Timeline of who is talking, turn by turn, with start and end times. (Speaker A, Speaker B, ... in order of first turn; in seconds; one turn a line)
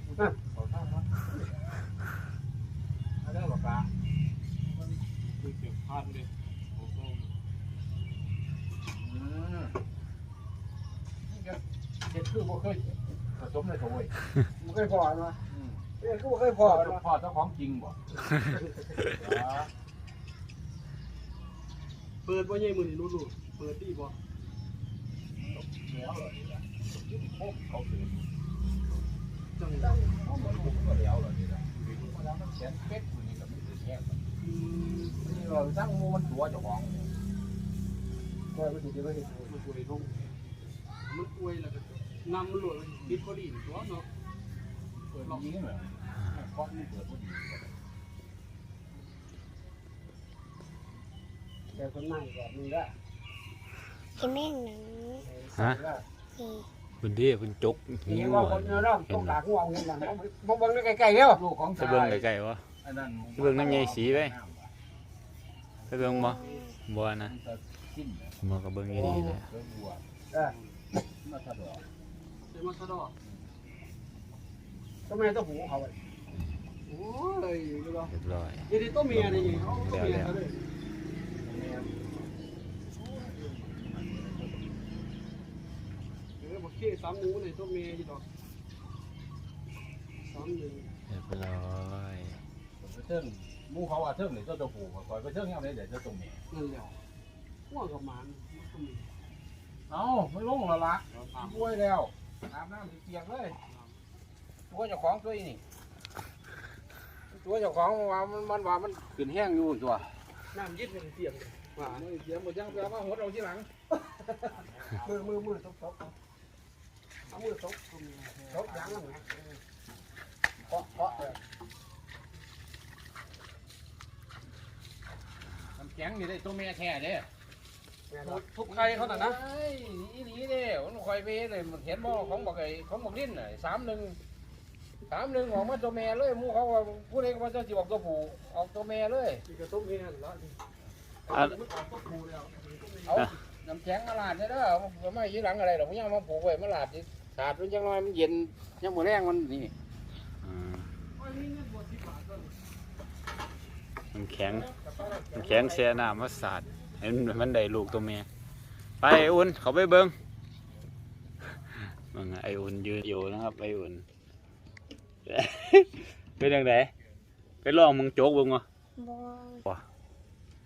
Speaker A: 0.5-1.1
Speaker A: 3.2-3.9
Speaker B: 5.4-6.3
Speaker A: 8.9-9.8
Speaker A: 11.3-14.1
Speaker C: 14.6-15.4
Speaker C: 16.0-17.0
Speaker A: 17.0-18.0
Speaker A: 19.2-19.7
Speaker B: 22.2-24.2
Speaker A: 25.5-28.3
Speaker B: 29.6-30.2
Speaker A: 30.2-34.2
Speaker B: 34.4-35.2
Speaker A: 35.2-37.1
Speaker C: 38.5-39.5
Speaker B: 39.5-40.1
Speaker B: 41.1-44.1
Speaker A: 45.1-47.7
Speaker C: 51.7-52.9
Speaker D: 54.2-55.3
Speaker C: 55.3-56.0
Speaker E: 55.6-55.8
Speaker D: 56.4-56.7
Speaker E: 57.0-59.4
Speaker C: 58.1-61.4
Speaker E: 61.8-62.7
Speaker A: 62.9-63.5
Speaker E: 63.4-64.4
Speaker A: 64.2-64.7
Speaker E: 65.9-67.3
Speaker D: 66.1-66.8
Speaker A: 67.5-68.3
Speaker E: 68.4-69.5
Speaker A: 69.6-70.0
Speaker A: 71.2-71.8
Speaker B: 72.5-73.1
Speaker C: 75.1-76.0
Speaker B: 76.9-78.1
Speaker E: 78.1-80.4
Speaker B: 78.7-80.7
Speaker A: 81.4-81.9
Speaker A: 83.9-84.5
Speaker B: 86.4-88.2
Speaker B: 90.2-90.9
Speaker E: 91.1-92.4
Speaker A: 92.8-96.4
Speaker B: 96.5-96.9
Speaker B: 97.7-99.1
Speaker A: 99.9-103.6
Speaker A: 104.7-105.6
Speaker A: 107.3-110.1
Speaker B: 110.5-112.0
Speaker A: 112.0-113.7
Speaker C: 115.0-116.1
Speaker B: 117.3-118.6
Speaker C: 118.5-119.2
Speaker C: 120.7-121.4
Speaker A: 125.8-127.3
Speaker C: 128.1-128.4
Speaker B: 128.3-129.4
Speaker A: 128.8-134.2
Speaker A: 135.1-139.4
Speaker B: 139.4-140.6
Speaker E: 141.3-141.6
Speaker B: 141.3-143.2
Speaker A: 143.7-149.7
Speaker E: 150.4-150.9
Speaker B: 151.2-152.5
Speaker E: 154.1-158.3
Speaker E: 159.0-160.1
Speaker E: 162.0-164.1
Speaker E: 165.3-166.9
Speaker E: 167.6-168.7
Speaker D: 169.0-169.7